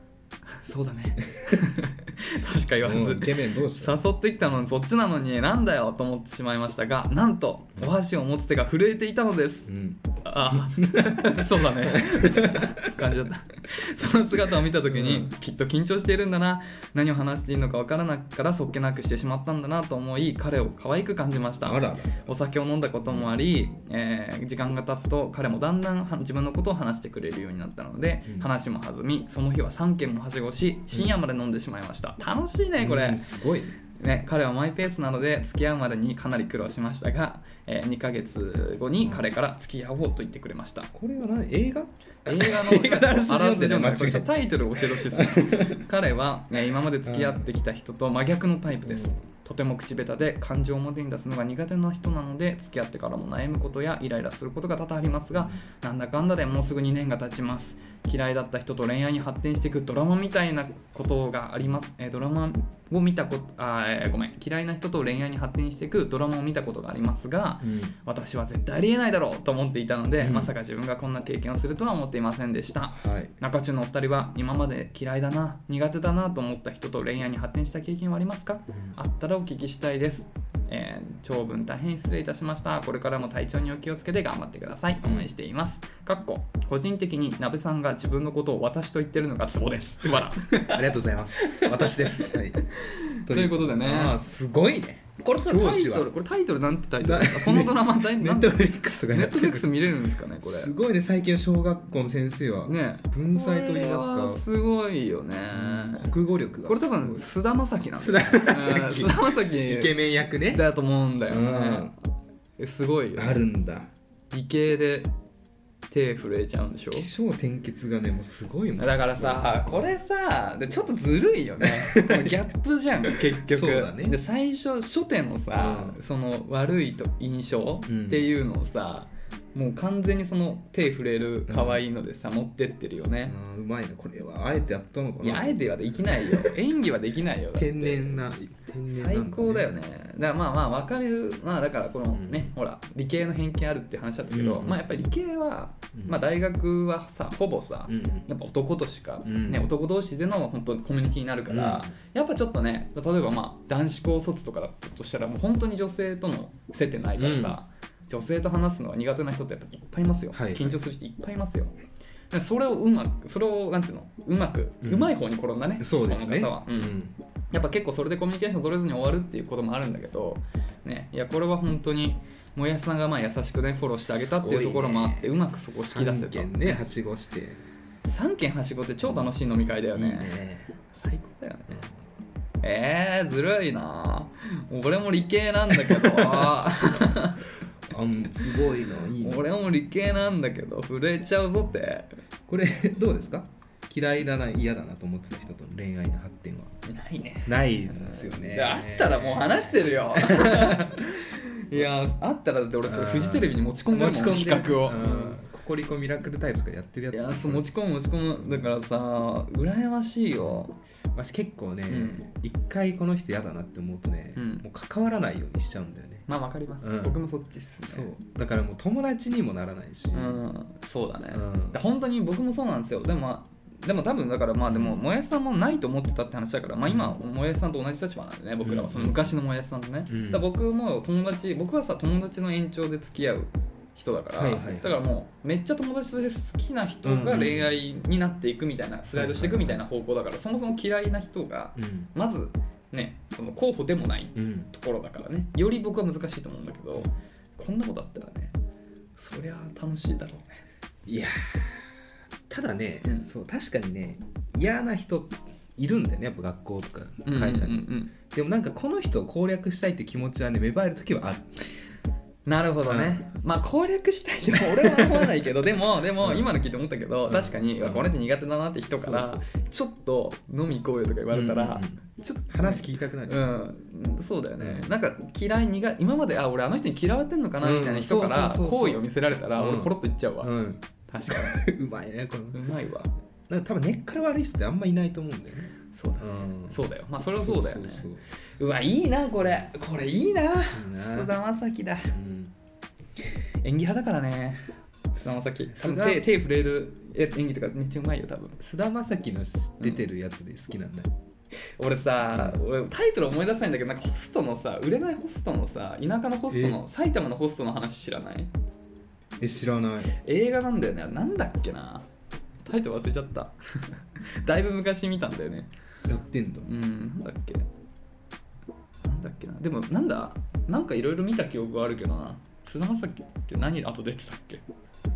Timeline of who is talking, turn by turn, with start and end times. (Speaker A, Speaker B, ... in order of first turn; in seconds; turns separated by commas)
Speaker A: 0.5-33.2, Speaker B: 2.8-4.0, Speaker B: 9.7-12.9, Speaker B: 14.9-15.3, Speaker B: 21.6-22.3, Speaker B: 32.8-33.8, Speaker A: 34.0-40.9, Speaker B: 40.9-45.8, Speaker A: 42.3-94.2, Speaker B: 47.1-47.5, Speaker B: 48.9-49.1, Speaker B: 67.6-68.0, Speaker B: 70.2-70.5, Speaker B: 72.9-73.3, Speaker B: 85.0-85.3, Speaker B: 90.6-92.6, Speaker B: 93.3-96.1, Speaker A: 95.2-100.7, Speaker B: 97.0-99.9, Speaker B: 100.4-104.4, Speaker A: 102.7-106.1, Speaker B: 105.5-107.3, Speaker A: 106.7-110.0, Speaker B: 108.0-110.7, Speaker A: 110.5-111.9, Speaker B: 111.3-111.9, Speaker A: 112.6-113.4, Speaker B: 113.2-113.9, Speaker A: 114.3-115.1, Speaker A: 115.9-117.1, Speaker B: 116.9-119.9, Speaker A: 118.8-133.3, Speaker B: 121.6-122.4, Speaker B: 123.4-124.2, Speaker B: 125.5-126.0, Speaker B: 127.9-128.3, Speaker B: 131.5-131.8, Speaker B: 133.3-136.5, Speaker A: 135.2-138.3, Speaker B: 137.6-139.8, Speaker A: 138.9-161.7, Speaker B: 142.2-142.5, Speaker B: 144.3-144.8, Speaker B: 145.9-146.2, Speaker B: 147.9-148.3, Speaker B: 149.2-149.7, Speaker B: 151.5-151.9, Speaker B: 157.2-157.6, Speaker B: 160.3-160.8, Speaker A: 162.3-167.0, Speaker B: 164.8-165.1, Speaker B: 165.8-167.2, Speaker A: 167.5-176.8, Speaker B: 174.1-177.6, Speaker A: 178.1-180.3, Speaker B: 179.0-179.3, Speaker B: 179.9-180.8, Speaker A: 180.9-181.8, Speaker A: 182.6-187.4, Speaker B: 185.8-187.2, Speaker B: 187.9-189.4, Speaker A: 189.2-192.1, Speaker B: 192.5-196.7, Speaker A: 196.8-205.4, Speaker B: 197.4-201.9, Speaker B: 202.8-207.7, Speaker A: 207.1-210.8, Speaker B: 208.4-208.7, Speaker B: 211.2-216.3, Speaker A: 211.9-212.2, Speaker A: 214.4-214.6, Speaker A: 216.3-218.1, Speaker B: 216.8-217.2, Speaker B: 217.8-220.4, Speaker A: 220.1-248.5, Speaker B: 221.3-221.8, Speaker B: 224.7-225.0, Speaker B: 226.9-227.2, Speaker B: 228.6-229.3, Speaker B: 230.1-230.5, Speaker B: 234.3-235.0, Speaker B: 237.0-237.7, Speaker B: 239.1-239.8, Speaker B: 241.8-242.1, Speaker B: 244.3-244.7, Speaker A: 249.2-250.6, Speaker B: 251.1-251.9, Speaker B: 252.5-261.5, Speaker A: 253.0-253.3, Speaker A: 257.3-258.1, Speaker A: 262.4-280.5, Speaker B: 262.9-263.2, Speaker B: 264.8-265.3, Speaker B: 266.2-266.5, Speaker B: 267.3-268.1, Speaker B: 269.0-269.5, Speaker B: 271.3-273.5, Speaker B: 274.6-274.9, Speaker B: 277.6-279.0, Speaker B: 279.6-282.6, Speaker A: 281.1-281.6, Speaker A: 282.5-283.1, Speaker B: 283.5-286.8, Speaker A: 285.9-292.1, Speaker B: 287.3-288.2, Speaker B: 290.7-291.3, Speaker B: 292.1-292.5, Speaker A: 293.6-294.6, Speaker B: 295.2-296.2, Speaker A: 295.2-298.6, Speaker B: 298.6-301.1, Speaker A: 301.8-308.5, Speaker B: 302.3-302.6, Speaker B: 306.5-306.8, Speaker B: 309.4-310.1, Speaker A: 310.2-312.1, Speaker A: 312.6-315.7, Speaker B: 316.1-316.7, Speaker A: 316.6-317.7, Speaker A: 319.0-324.6